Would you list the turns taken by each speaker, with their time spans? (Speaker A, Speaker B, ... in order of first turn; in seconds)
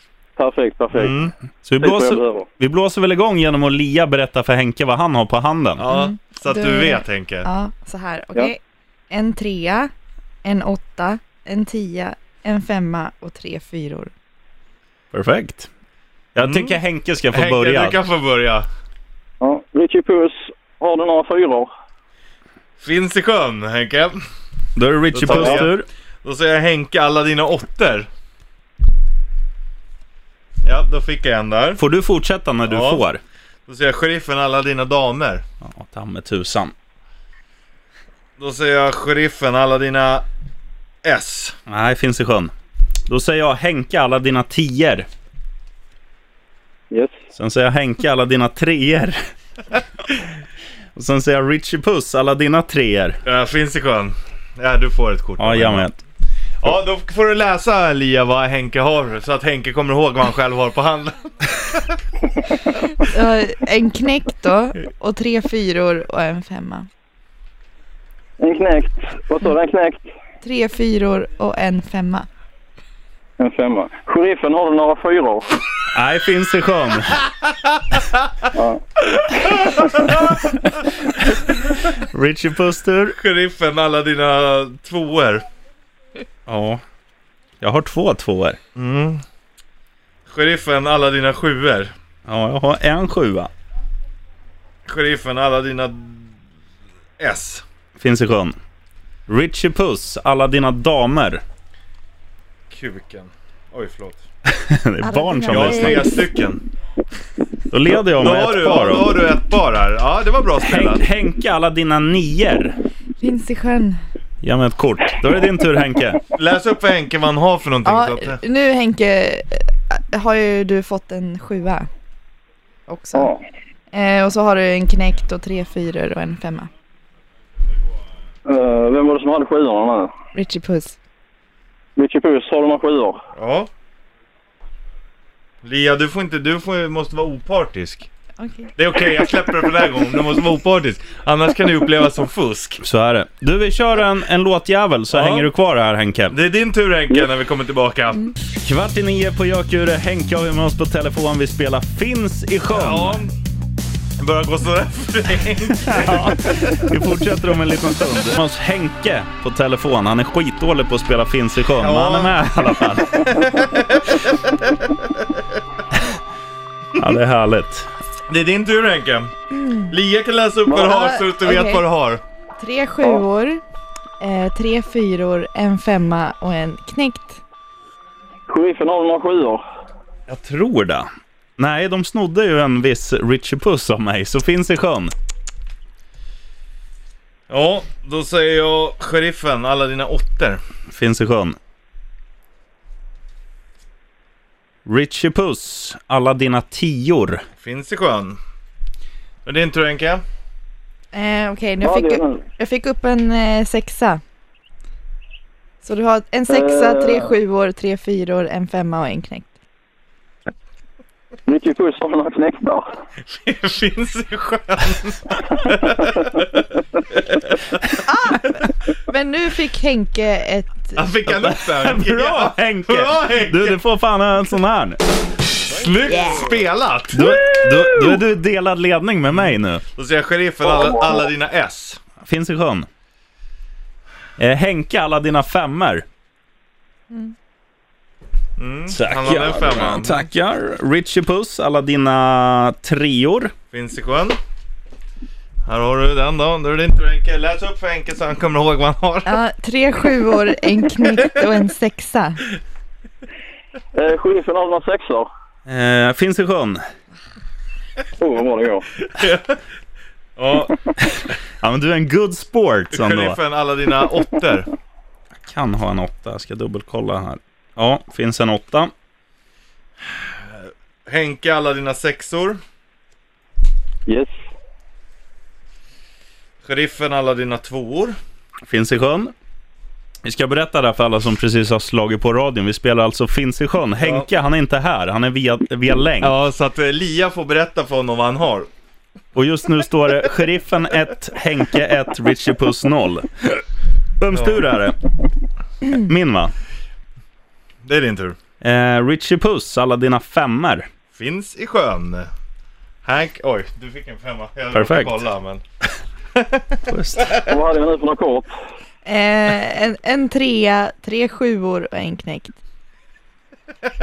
Speaker A: 0.4-1.2, 1.8-2.5, 19.4-21.7, 25.3-25.6, 68.4-70.1, 73.4-75.5, 78.5-78.8, 123.1-123.4, 128.4-130.1, 131.9-133.2, 178.5-179.6, 201.8-202.4, 206.5-207.3, 211.5-212.8, 253.9-255.3, 258.2-258.9, 274.1-274.3, 307.4-308.5
Speaker B: 0.9-1.3, 5.8-7.5, 16.4-16.8, 17.3-18.7, 22.8-24.2, 25.1-25.7, 26.2-28.1, 30.6-31.8, 32.7-33.0, 33.7-35.4, 38.4-40.2, 41.0-41.6, 53.2-55.9, 56.6-61.9, 79.1-80.5, 83.1-85.5, 88.7-89.2, 90.3-91.9, 94.8-96.3, 97.2-97.6, 102.7-104.2, 105.5-106.6, 107.9-111.0, 116.3-118.4, 133.3-133.7, 135.6-138.1, 138.8-142.8, 145.1-145.5, 146.3-148.3, 152.7-153.3, 154.2-156.9, 161.8-165.4, 168.3-169.3, 169.9-172.2, 187.5-190.6, 197.6-198.4, 199.4-200.2, 213.3-217.8, 220.9-223.8, 225.7-227.4, 229.9-232.0, 238.6-240.2, 243.7-244.4, 245.7-249.4, 259.0-259.6, 260.4-260.8, 262.9-264.7, 270.2-272.6, 276.6-278.2, 284.0-284.3, 286.2-288.7, 294.3-294.6, 297.8-298.4, 301.1-302.3, 303.0-305.6, 306.3-307.4
Speaker C: 1.6-5.8, 15.1-15.7, 16.3-18.0, 24.8-25.9, 31.8-33.2, 35.6-36.7, 41.7-42.5, 43.1-45.1, 47.3-49.2, 50.9-53.2, 55.4-56.0, 75.9-77.2, 80.1-83.2, 86.5-86.8, 87.6-88.6, 92.3-93.5, 98.0-98.6, 99.3-101.4, 104.4-106.0, 107.7-109.1, 110.6-112.8, 114.4-116.2, 142.8-146.3, 148.6-153.2, 155.8-163.3, 166.9-167.9, 180.3-185.1, 190.9-191.6, 194.8-197.4, 221.3-225.0, 227.1-229.8, 232.2-232.9, 234.4-236.0, 238.9-243.5, 255.7-256.8, 261.6-263.4, 265.4-268.9, 278.7-279.3, 280.2-286.3, 289.3-293.4, 294.2-295.0, 295.9-296.5, 298.6-300.9, 304.7-305.2, 306.9-307.3
Speaker D: 5.9-8.6, 9.1-9.9, 10.4-14.1, 63.0-66.9, 70.4-72.2, 105.0-106.2, 113.2-114.0, 117.8-121.9, 122.9-123.3, 123.9-126.7, 130.3-131.0, 138.4-138.7, 169.5-169.9, 170.7-171.8, 172.6-173.6, 174.2-177.4, 201.1-204.2, 205.8-209.5, 218.1-221.0, 226.1-226.5, 249.2-252.4, 309.0-312.6